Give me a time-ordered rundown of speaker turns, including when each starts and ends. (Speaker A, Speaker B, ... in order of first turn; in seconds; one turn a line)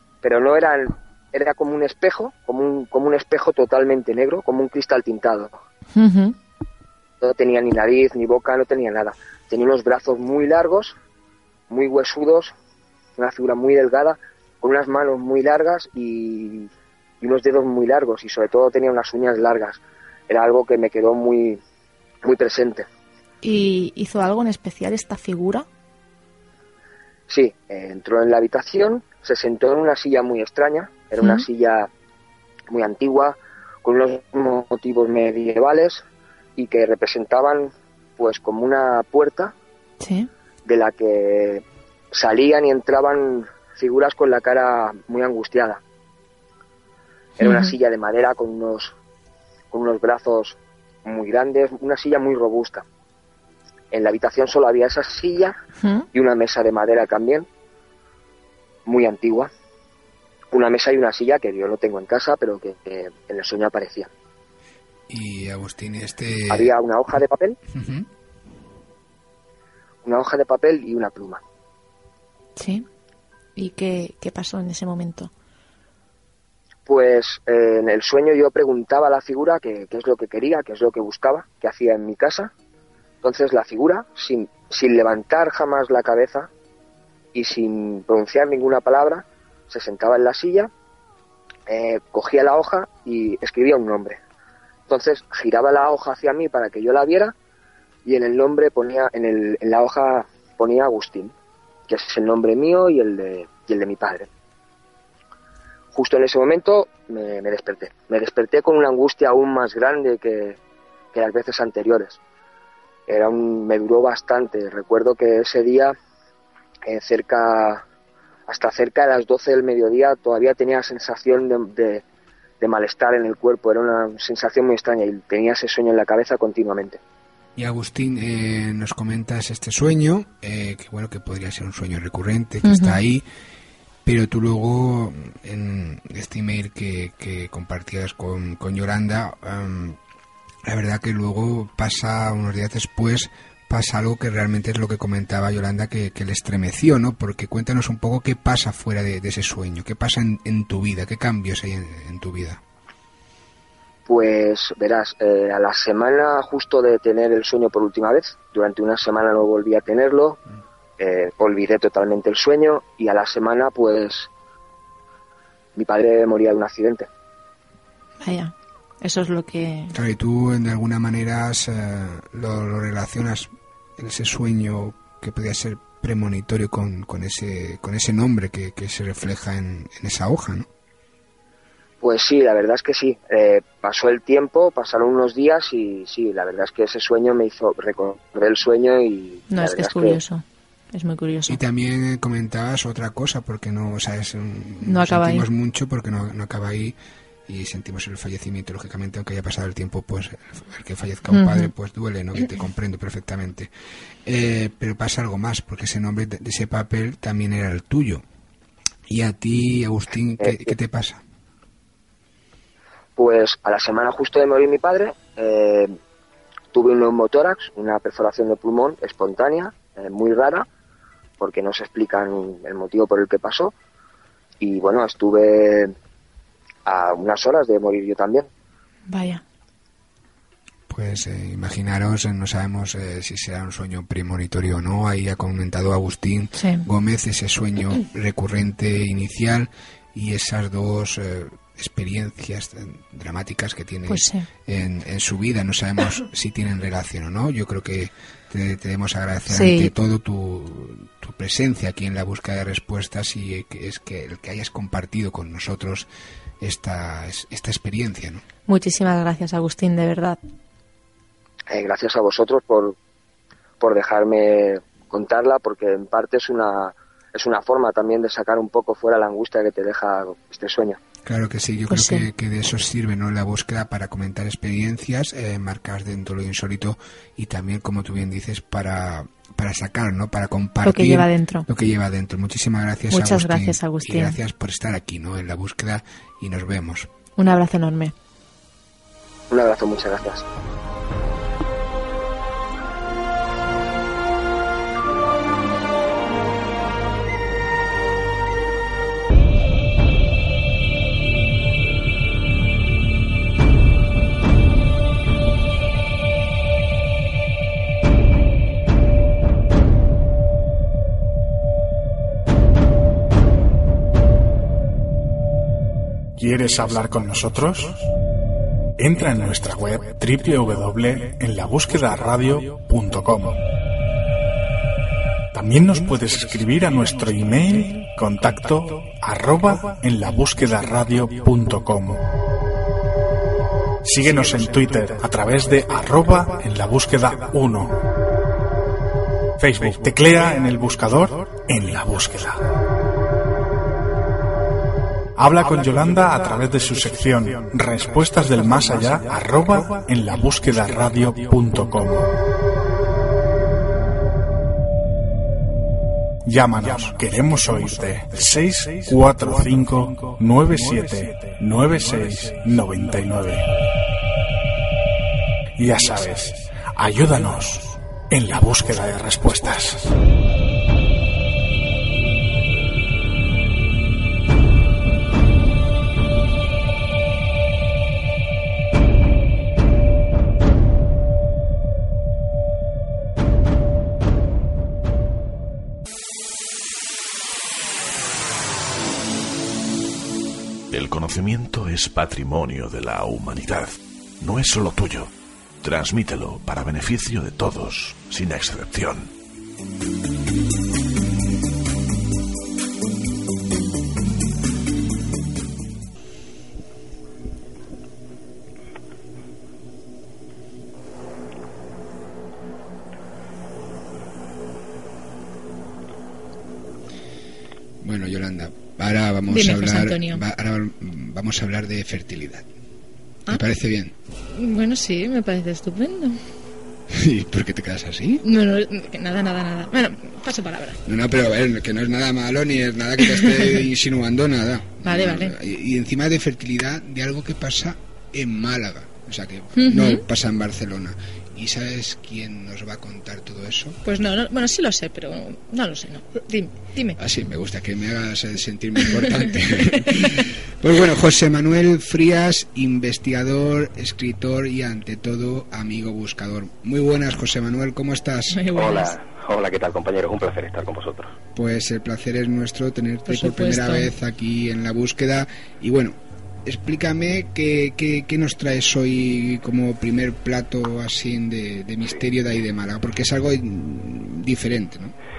Speaker A: 0.2-5.5
Speaker B: 5.9-6.3
Speaker A: 7.2-10.9
Speaker A: 11.7-12.5
Speaker A: 13.2-16.7
Speaker A: 17.2-21.6
Speaker A: 22.2-22.9
Speaker B: 23.4-25.6
Speaker A: 27.3-31.9
Speaker B: 31.2-31.4
Speaker A: 32.7-36.0
Speaker A: 36.6-39.5
Speaker B: 40.0-40.3
Speaker A: 40.6-45.8
Speaker A: 47.4-48.9
Speaker B: 47.4-47.7
Speaker A: 49.7-52.8
Speaker A: 53.9-55.5
Speaker A: 56.1-57.5
Speaker A: 58.9-59.5
Speaker A: 60.5-64.1
Speaker C: 65.1-66.7
Speaker A: 66.5-67.6
Speaker C: 67.7-68.1
Speaker A: 70.0-71.4
Speaker B: 72.6-72.8
Speaker B: 73.6-75.3
Speaker A: 76.9-82.5
Speaker A: 83.2-86.5
Speaker A: 87.3-90.7
Speaker A: 91.7-94.2
Speaker A: 94.9-97.3
Speaker A: 98.0-101.3
Speaker A: 101.9-104.3
Speaker A: 105.9-110.6
Speaker A: 111.1-112.2
Speaker A: 113.1-115.9
Speaker A: 116.8-117.8
Speaker A: 118.5-122.0
Speaker A: 122.6-127.0
Speaker C: 127.5-133.2
Speaker B: 132.6-133.0
Speaker C: 134.0-140.0
Speaker C: 140.6-152.6
Speaker A: 154.1-160.4
Speaker A: 161.0-164.3
Speaker A: 165.8-167.1
Speaker B: 168.2-169.9
Speaker C: 169.9-180.7
Speaker A: 182.0-190.2
Speaker B: 189.5-191.6
Speaker C: 191.5-196.9
Speaker B: 194.8-195.4
Speaker C: 197.5-203.7
Speaker B: 201.3-201.7
Speaker C: 204.2-208.2
Speaker C: 209.1-211.2
Speaker A: 210.4-210.7
Speaker A: 213.2-215.9
Speaker A: 216.7-220.7
Speaker A: 221.4-223.7
Speaker A: 224.6-225.9
Speaker A: 226.8-228.5
Speaker B: 229.1-229.4
Speaker C: 230.9-256.1
Speaker B: 236.5-236.8
Speaker B: 244.1-244.4
Speaker B: 249.5-249.9
Speaker C: 256.6-258.4
Speaker B: 258.7-260.4
Speaker A: 261.7-262.9
Speaker A: 263.8-271.0
Speaker C: 271.2-287.1
Speaker B: 271.9-272.3
Speaker B: 280.8-281.6
Speaker B: 283.1-284.4
Speaker B: 287.4-288.1
Speaker A: 289.5-290.4
Speaker D: 316.4-318.0
Speaker D: 319.0-323.6
Speaker D: 325.5-332.2
Speaker D: 334.0-338.0
Speaker D: 339.6-342.6
Speaker D: 345.4-352.3
Speaker D: 356.4-363.7
Speaker D: 365.8-370.1
Speaker E: 390.9-395.3
Speaker E: 395.8-399.3
Speaker C: 418.0-422.6
Speaker B: 419.5-420.4
Speaker C: 423.5-424.1
Speaker B: 424.5-426.4
Speaker C: 427.1-428.4
Speaker B: 428.4-431.0
Speaker C: 431.0-444.0
Speaker B: 433.2-433.5
Speaker B: 435.0-435.5
Speaker B: 439.8-440.2
Speaker B: 444.0-447.2
Speaker C: 447.2-458.6
Speaker B: 458.5-459.1
Speaker F: 458.7-461.4
Speaker C: 461.5-475.1
Speaker B: 463.3-464.1